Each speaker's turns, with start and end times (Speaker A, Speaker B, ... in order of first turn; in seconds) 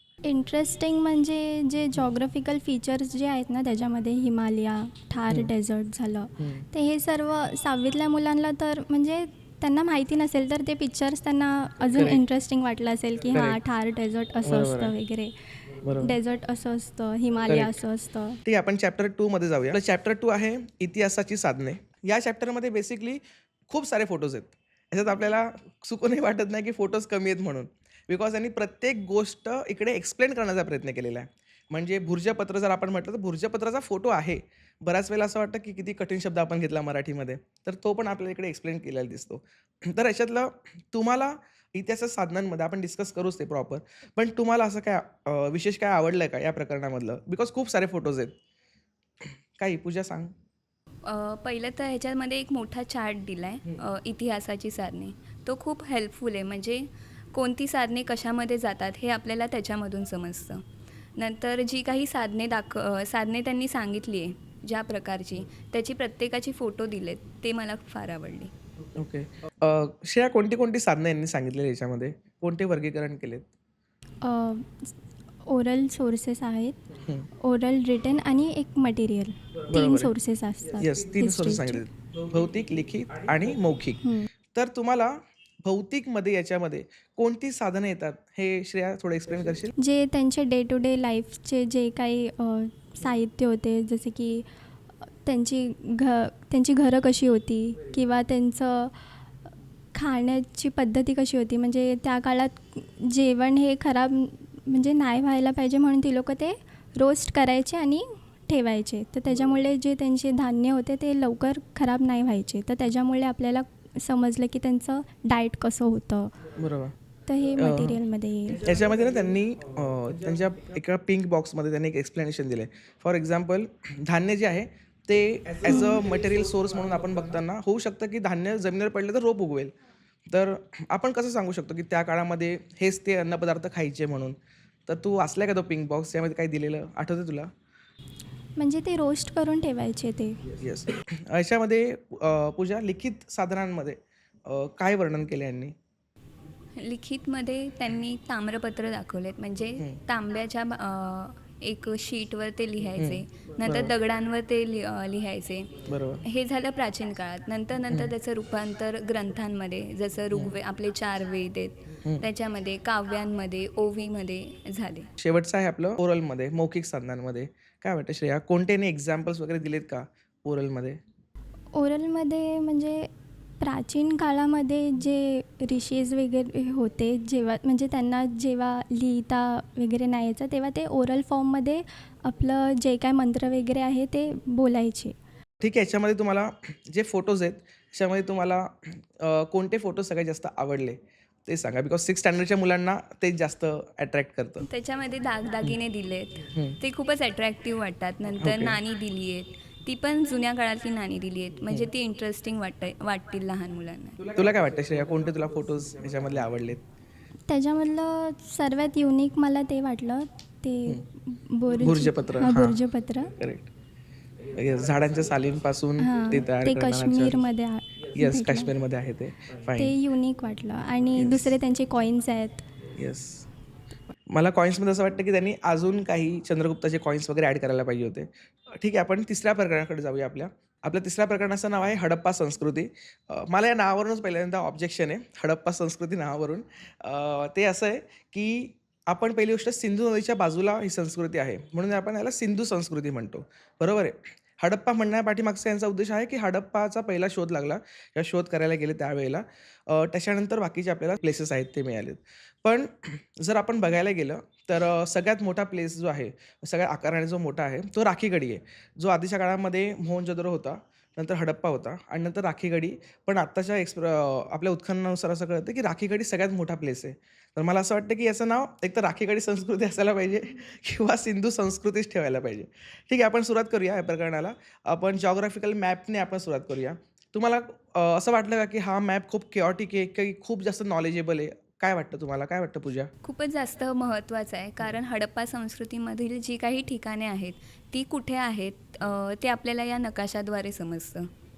Speaker A: 0.2-18.4, 74.2-74.9, 75.5-76.8, 77.4-81.8, 84.0-84.3, 89.8-94.4, 95.2-98.9, 99.9-116.3, 117.3-118.6, 125.7-126.0, 138.6-140.4, 171.7-173.1, 173.6-185.1, 207.5-213.3, 216.0-218.7, 219.8-222.7
Speaker B: 6.4-6.6, 11.9-12.2, 14.4-14.9, 15.8-16.1, 17.5-17.8, 18.4-48.3, 49.6-50.3, 68.9-73.5, 79.7-80.1, 80.8-89.7, 116.5-117.0, 117.6-118.0, 118.6-129.7, 130.3-137.5, 140.6-145.7, 153.0-153.9, 155.8-156.2, 165.2-171.0, 185.6-194.6, 196.5-196.8, 198.4-198.8, 204.3-206.8, 211.8-212.8, 213.4-213.7, 214.5-217.4, 218.2-219.9, 221.2-221.5, 222.9-223.4, 224.3-283.1
Speaker C: 51.0-60.6, 61.2-68.5, 146.8-165.1, 194.6-204.3, 283.2-291.3